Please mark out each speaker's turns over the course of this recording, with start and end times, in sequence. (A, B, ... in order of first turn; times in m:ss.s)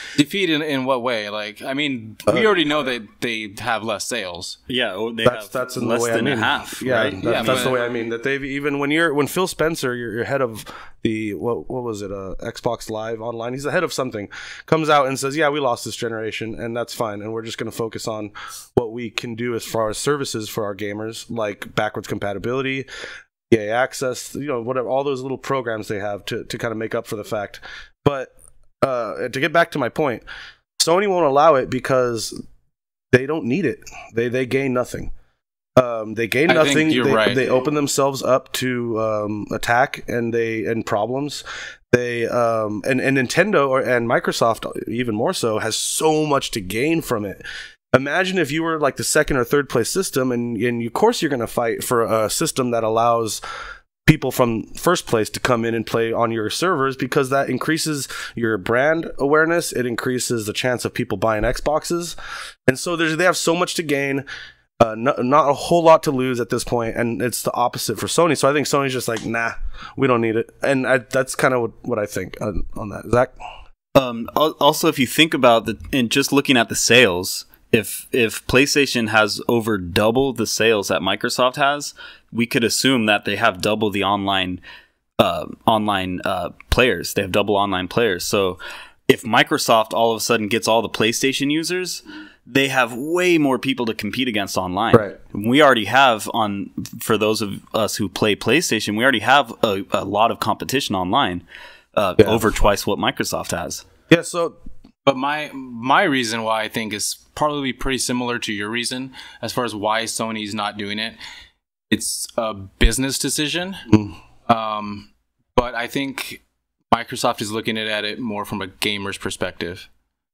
0:00.2-0:04.6 A
0:04.7-0:07.7 B
0:05.2-0:22.9 C
0:07.2-0:07.7 A
0:23.5-0:30.2 C
0:30.8-0:32.4 C
0:33.1-0:35.1 C
0:35.8-0:53.4 C
0:36.5-0:37.4 A
0:54.0-1:02.1 C
1:02.6-1:04.2 C
1:04.8-1:13.3 C
1:14.0-1:24.6 B
1:25.2-1:41.4 B
1:41.9-1:43.8 B
1:44.1-1:44.6 C
1:45.0-1:51.2 A
1:51.9-1:53.8 A
1:53.9-1:54.2 C
1:54.5-1:59.9 A